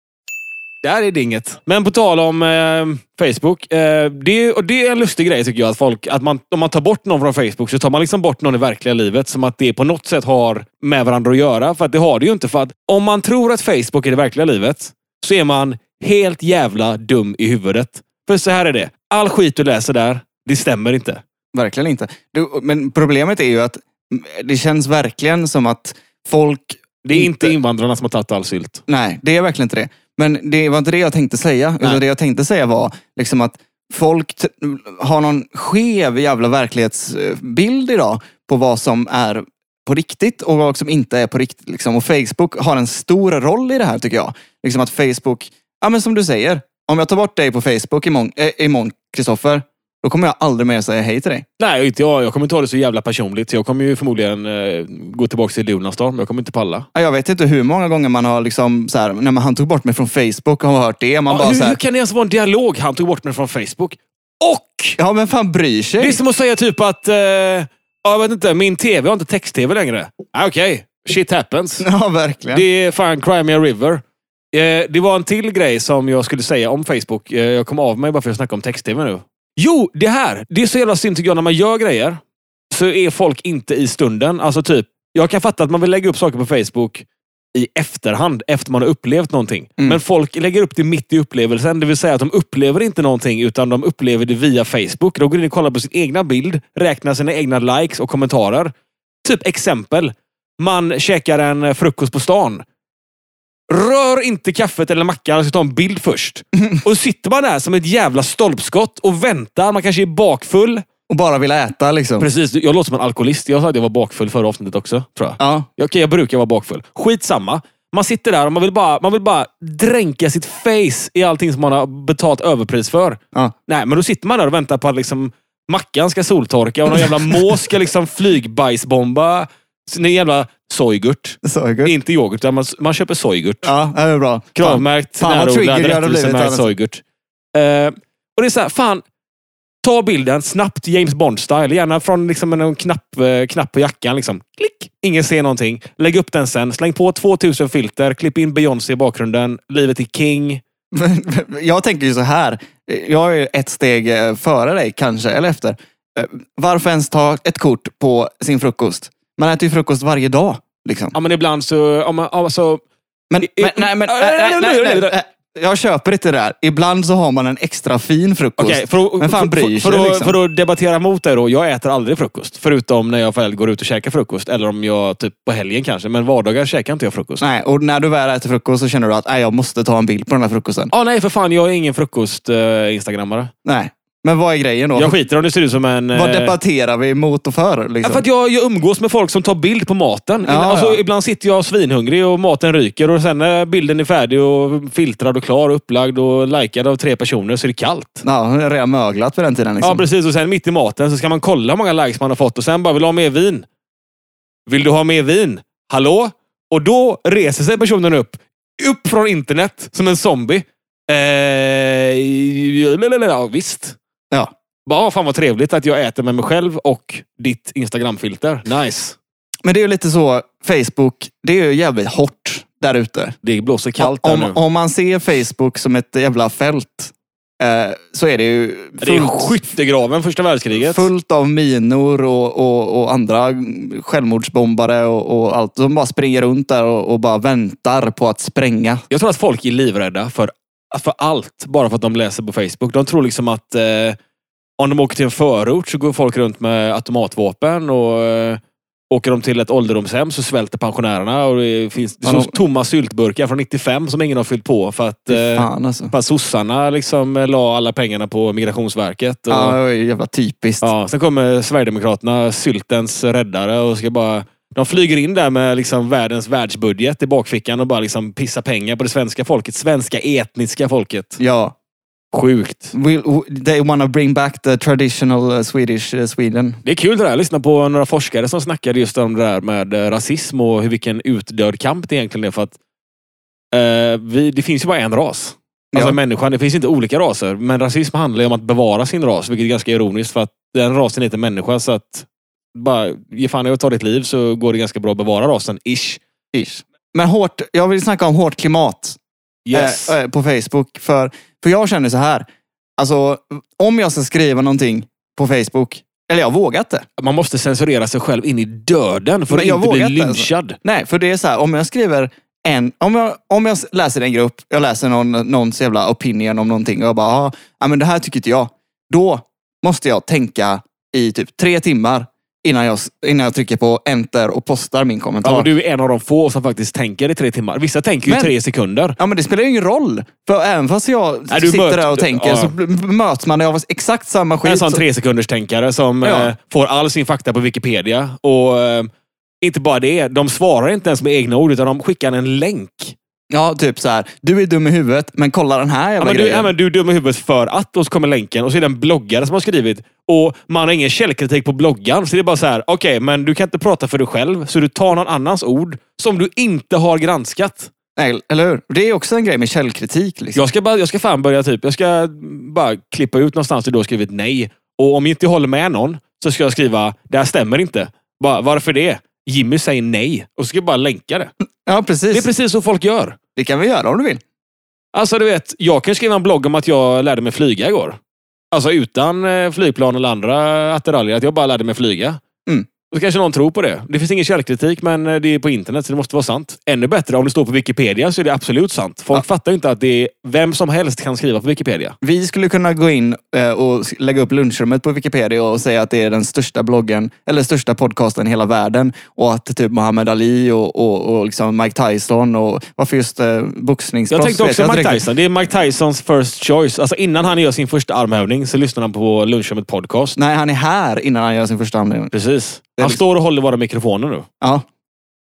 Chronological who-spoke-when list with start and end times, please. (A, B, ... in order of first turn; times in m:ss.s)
0:00.8-0:21.2 A
0:21.5-0:27.6 B
0:27.0-0:28.8 A
0:28.9-0:51.4 B
0:51.6-0:56.9 A
0:56.9-1:01.8 B
1:01.3-1:05.0 A
1:05.0-1:06.2 B
1:06.0-1:11.8 A
1:11.8-1:12.6 B
1:12.5-1:14.0 A
1:14.5-1:38.7 A
1:39.2-1:42.6 A
1:43.7-1:50.8 A
1:51.1-1:52.3 B
1:52.2-2:13.7 A
1:55.4-1:55.7 B
2:07.0-2:07.6 B
2:11.4-2:11.9 B
2:13.6-2:16.7 B
2:14.6-2:17.0 A
2:17.5-2:19.0 A
2:19.8-2:30.6 A
2:30.9-2:41.2 B
2:41.1-2:42.8 A
2:43.3-2:50.4 B
2:43.4-2:45.2 A
2:48.6-2:57.4 A
2:57.4-3:00.9 B
3:00.9-3:03.5 A
3:03.6-3:05.2 B
3:05.0-3:06.6 A
3:06.1-3:08.2 B
3:08.0-3:18.2 A
3:10.4-3:11.0 B
3:18.2-3:20.1 B
3:19.8-3:23.7 A
3:24.7-3:34.0 A
3:34.9-3:39.2 A
3:39.6-3:43.4 B
3:43.4-3:44.6 A
3:44.0-3:49.6 B
3:49.0-3:51.1 A
3:50.8-3:59.0 B
3:59.1-4:04.2 A
4:04.8-4:19.8 A
4:12.2-4:12.6 B
4:15.3-4:16.1 B
4:19.5-4:20.9 B
4:20.8-4:31.4 A
4:31.4-4:31.7 B
4:32.3-4:32.9 A
4:32.9-4:36.8 B
4:36.8-4:42.8 A
4:43.7-4:56.2 A
4:45.9-4:46.2 B
4:56.5-4:59.2 B
4:59.6-5:00.2 A
4:59.7-5:02.4 B
5:03.0-5:07.0 B
5:07.2-5:10.8 A
5:09.5-5:25.7 B
5:25.4-5:29.2 A
5:28.3-5:28.5 B
5:29.2-5:35.0 B
5:31.5-5:32.7 A
5:34.6-5:39.1 A
5:36.2-5:36.5 B
5:39.6-5:43.2 A
5:43.5-5:46.7 B
5:46.2-5:57.9 A
5:58.2-6:00.6 B
6:00.6-6:11.5 A
6:11.9-6:12.5 B
6:12.3-6:13.4 A
6:13.6-6:14.4 B
6:15.1-6:18.2 A
6:18.7-6:22.4 A
6:23.1-6:32.2 A
6:32.2-6:45.2 B
6:44.3-6:50.4 A
6:50.4-6:52.3 B
6:52.3-6:54.5 A
6:54.6-6:54.9 B